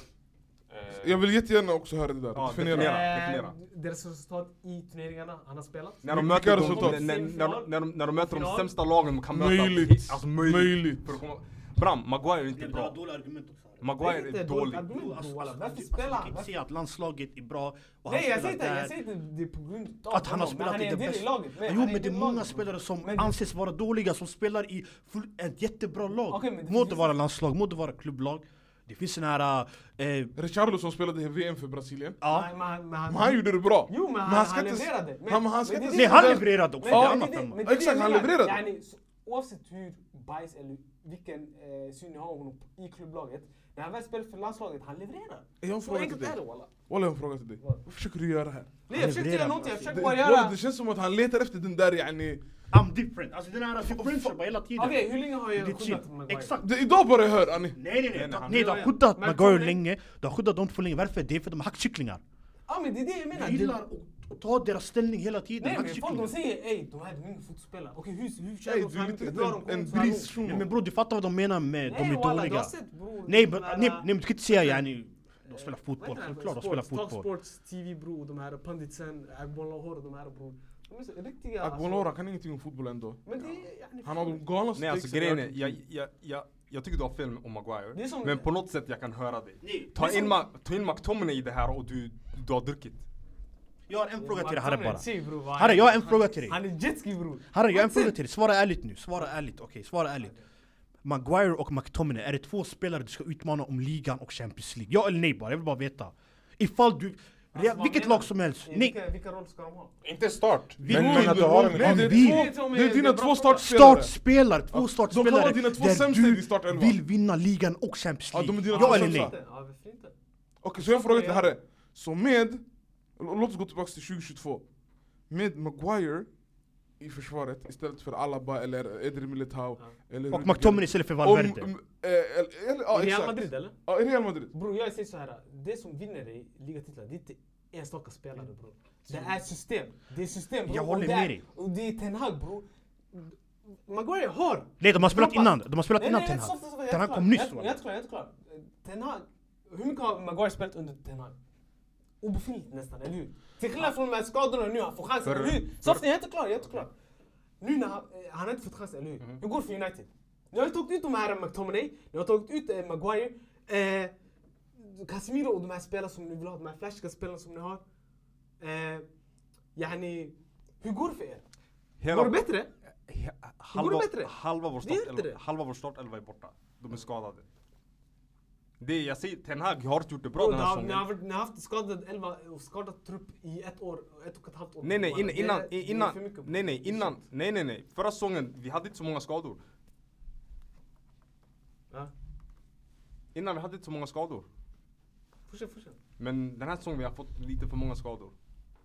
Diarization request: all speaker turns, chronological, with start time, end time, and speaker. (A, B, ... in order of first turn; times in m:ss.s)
0:00.7-0:01.2 A
0:00.9-0:03.1 B
0:02.3-0:03.6 C
0:02.6-0:08.7 D
0:06.0-0:13.0 C
0:06.0-0:07.0 B
0:09.3-0:11.2 B
0:12.5-0:13.9 E
0:13.8-0:14.9 C
0:14.0-0:16.5 D
0:14.9-0:19.0 E
0:18.0-0:23.3 D
0:20.1-0:30.3 E
0:26.3-0:27.1 D
0:30.3-0:32.2 B
0:32.2-0:32.5 E
0:32.3-0:46.7 D
0:33.1-0:38.6 B
0:35.9-0:37.6 E
0:45.6-0:48.7 B
0:48.9-0:50.6 D
0:48.9-0:49.9 E
0:49.8-0:52.4 B
0:52.7-0:56.7 E
0:53.9-0:54.3 B
0:54.8-0:56.6 D
0:56.6-0:57.8 B
0:57.7-1:02.2 E
0:58.1-0:58.8 C
0:58.3-0:59.8 D
1:02.7-1:03.8 D
1:03.3-1:06.3 E
1:05.6-1:10.3 D
1:08.6-1:10.7 B
1:10.4-1:12.7 E
1:11.8-1:14.8 D
1:13.2-1:17.3 E
1:15.5-1:22.1 D
1:21.6-1:23.2 B
1:23.2-1:24.5 D
1:24.0-1:25.8 B
1:24.7-1:33.0 C
1:27.9-1:28.5 D
1:29.6-1:30.3 E
1:30.0-1:30.3 D
1:33.9-1:36.6 E
1:34.2-1:38.2 D
1:37.5-1:40.3 E
1:41.0-1:49.0 E
1:47.5-1:49.9 D
1:50.0-1:52.2 A
1:50.8-1:52.5 E
1:50.8-1:54.1 B
1:52.1-1:53.7 D
1:53.6-1:59.3 E
1:54.7-1:57.0 B
1:58.3-1:59.4 B
1:58.7-2:00.1 D
2:00.6-2:02.6 B
2:00.8-2:01.5 D
2:03.2-2:04.6 B
2:05.3-2:06.3 B
2:07.0-2:14.5 B
2:10.3-2:11.7 E
2:12.9-2:13.8 D
2:14.5-2:31.3 D
2:20.7-2:21.4 E
2:24.8-2:27.8 E
2:32.2-2:36.9 D
2:35.3-2:36.0 A
2:37.6-2:44.1 D
2:44.8-2:47.8 D
2:48.6-2:49.1 D
2:49.8-2:51.4 D
2:52.0-2:52.4 C
2:52.1-2:52.7 D
2:53.1-2:57.4 C
2:53.7-2:55.4 D
2:58.8-3:01.1 C
3:00.3-3:07.2 D
3:04.8-3:09.6 C
3:13.3-3:14.5 C
3:15.5-3:16.0 D
3:16.2-3:18.3 C